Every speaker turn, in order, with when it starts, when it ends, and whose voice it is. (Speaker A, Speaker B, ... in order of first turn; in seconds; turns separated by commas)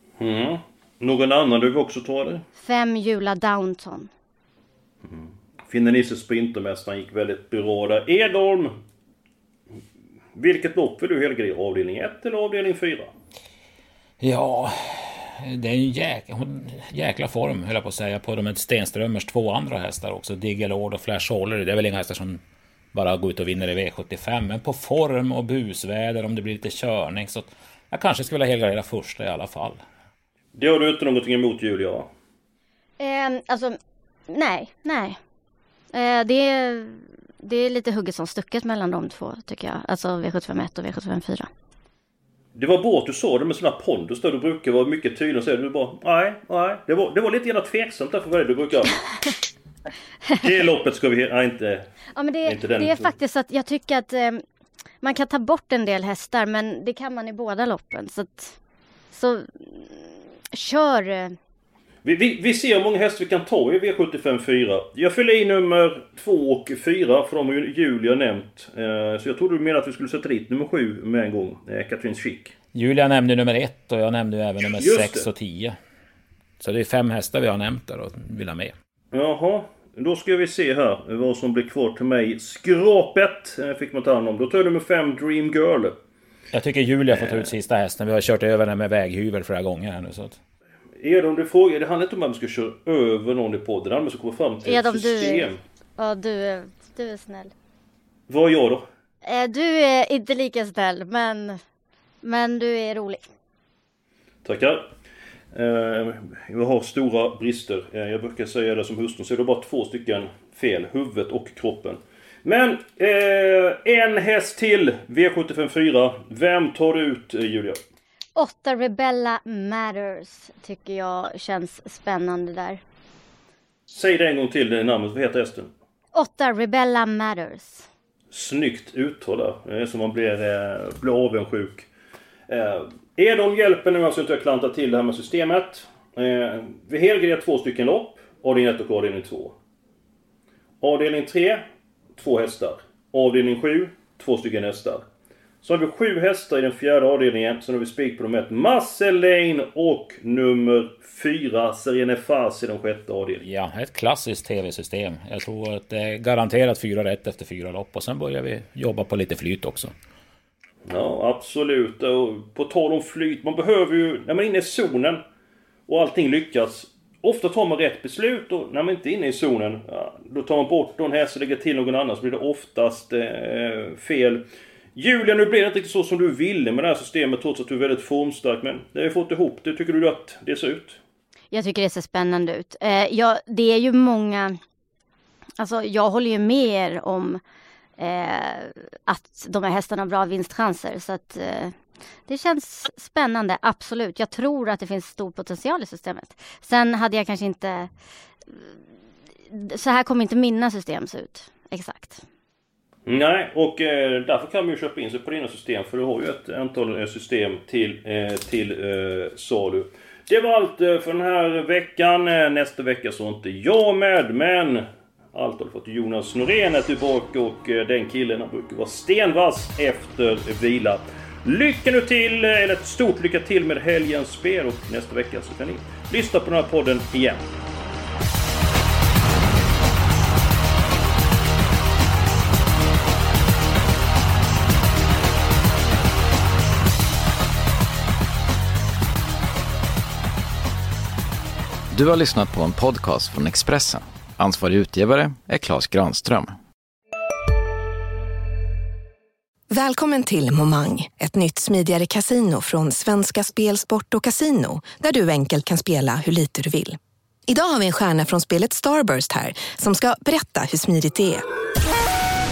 Speaker A: 0.2-2.4, Speaker B: 2.6-4.1, Speaker A: 5.0-8.8, Speaker A: 10.3-13.1, Speaker C: 14.2-22.4, Speaker C: 22.9-29.8, Speaker A: 30.5-32.1, Speaker B: 33.0-33.8, Speaker B: 34.3-35.2, Speaker B: 35.9-41.5, Speaker A: 42.5-49.0, Speaker A: 50.4-51.9, Speaker B: 52.1-54.4, Speaker A: 52.4-53.1, Speaker B: 55.0-58.6, Speaker B: 59.1-61.3, Speaker A: 62.0-72.5, Speaker C: 72.7-75.8, Speaker A: 74.8-75.3, Speaker C: 76.6-78.7, Speaker A: 79.1-86.0, Speaker C: 86.5-90.4, Speaker A: 87.2-87.5, Speaker A: 91.0-95.6, Speaker B: 94.6-97.5, Speaker A: 98.3-98.8, Speaker B: 99.2-101.6, Speaker B: 102.2-103.2, Speaker A: 104.4-104.9, Speaker A: 105.5-117.8, Speaker B: 118.3-122.8, Speaker A: 123.9-125.7, Speaker B: 126.1-127.8, Speaker A: 128.3-131.9, Speaker A: 132.5-139.5, Speaker A: 140.8-141.6, Speaker A: 142.2-145.0, Speaker A: 145.6-153.4, Speaker C: 153.4-159.9, Speaker A: 160.8-165.2, Speaker A: 165.9-174.4, Speaker A: 174.9-181.0, Speaker B: 181.5-184.6, Speaker B: 185.6-187.4, Speaker B: 188.0-191.7, Speaker B: 192.3-197.9, Speaker B: 199.5-202.2, Speaker A: 203.1-227.5, Speaker D: 241.9-246.6, Speaker E: 249.7-261.4